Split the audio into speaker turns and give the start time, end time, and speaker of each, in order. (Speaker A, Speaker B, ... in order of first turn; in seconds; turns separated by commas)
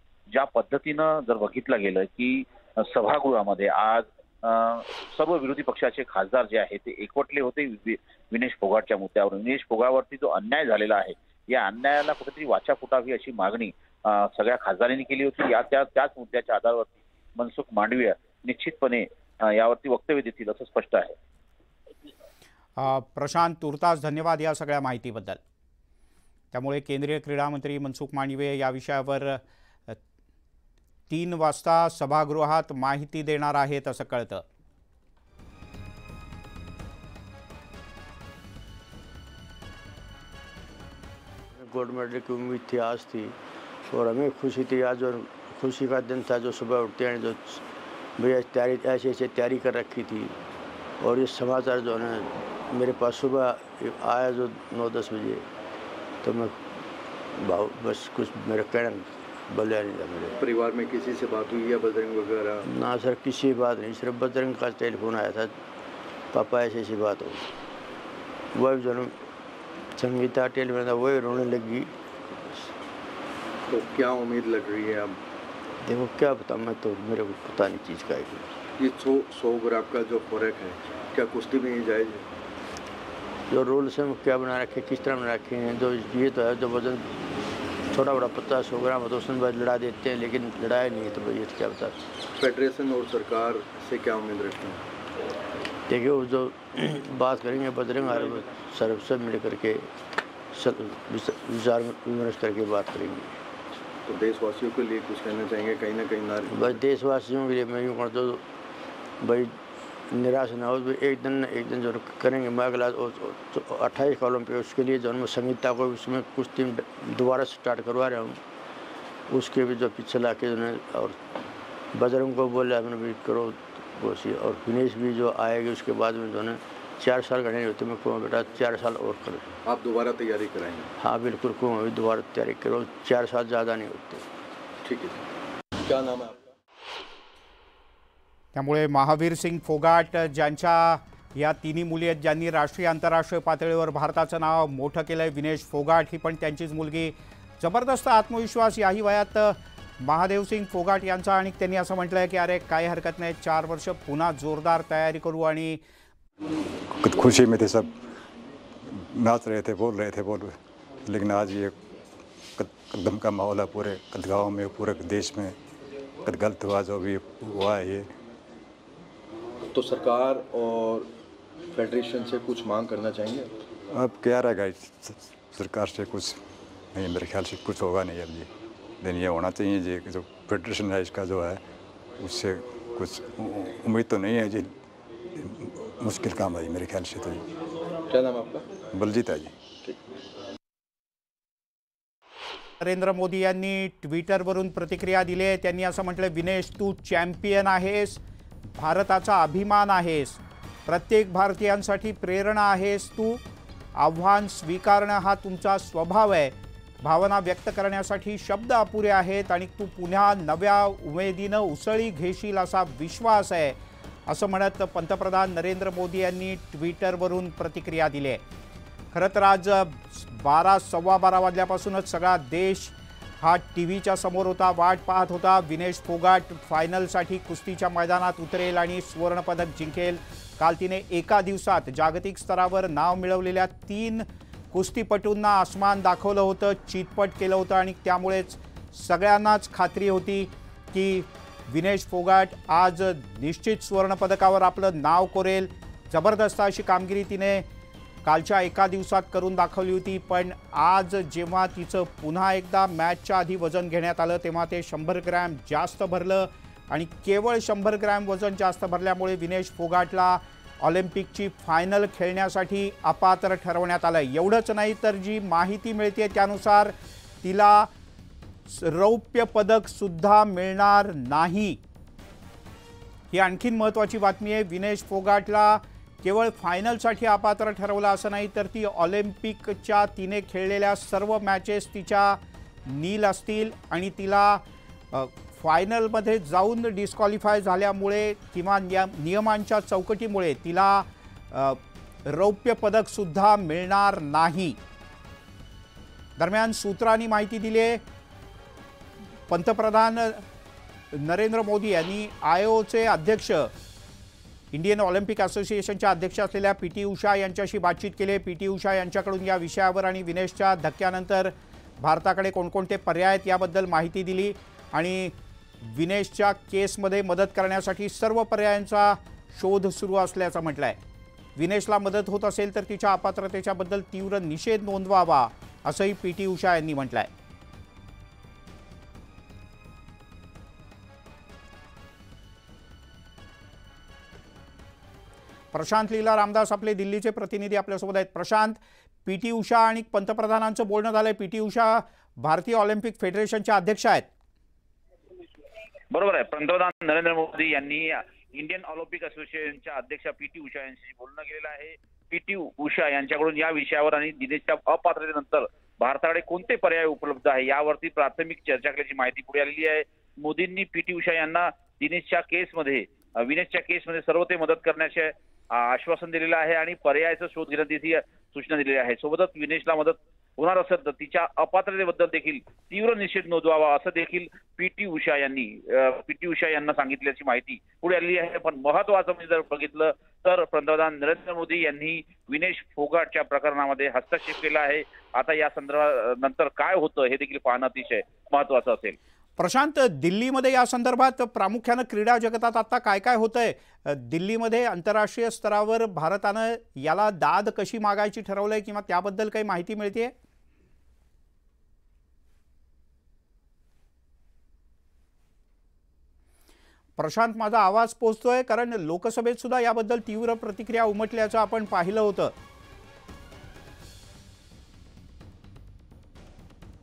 Speaker A: 0.3-21.1, Speaker B: 22.8-25.4, Speaker B: 26.5-30.0, Speaker B: 31.1-34.4, Speaker C: 41.6-43.4, Speaker C: 43.9-47.6, Speaker C: 48.2-50.4, Speaker C: 51.0-55.4, Speaker C: 56.2-56.6, Speaker C: 57.4-60.4, Speaker D: 60.4-62.7, Speaker C: 62.7-65.5, Speaker C: 66.3-67.5, Speaker C: 68.5-69.1, Speaker C: 70.0-72.7, Speaker D: 73.7-75.2, Speaker C: 75.8-78.5, Speaker D: 78.8-82.3, Speaker C: 83.5-87.1, Speaker C: 87.9-92.0, Speaker D: 92.4-94.8, Speaker C: 95.9-99.9, Speaker C: 100.5-103.3, Speaker D: 104.0-106.8, Speaker C: 106.5-108.4, Speaker C: 109.2-109.5, Speaker C: 110.1-118.4, Speaker C: 119.3-121.2, Speaker C: 121.9-129.5, Speaker D: 129.7-130.9, Speaker C: 131.0-134.2, Speaker D: 134.8-135.2, Speaker D: 135.8-136.5, Speaker B: 138.5-155.8, Speaker E: 157.0-157.9, Speaker E: 158.9-160.5, Speaker E: 161.1-161.8, Speaker E: 162.6-165.6, Speaker E: 166.2-168.1, Speaker D: 169.7-171.1, Speaker D: 171.7-173.5, Speaker E: 173.9-176.4, Speaker E: 176.9-178.5, Speaker E: 179.0-181.6, Speaker E: 182.2-184.7, Speaker E: 185.4-187.4, Speaker D: 188.1-188.7, Speaker E: 188.9-189.6, Speaker B: 192.8-198.2, Speaker B: 198.8-203.4, Speaker B: 204.0-213.8, Speaker B: 214.3-218.4, Speaker B: 219.1-247.7, Speaker B: 248.2-267.9, Speaker B: 268.7-271.8, Speaker B: 273.3-294.8, Speaker B: 296.4-298.0, Speaker B: 299.5-300.4, Speaker B: 301.1-303.7, Speaker B: 304.7-321.0, Speaker B: 321.6-327.3, Speaker B: 335.7-344.3, Speaker A: 346.1-389.2, Speaker B: 389.6-400.3, Speaker B: 407.2-412.5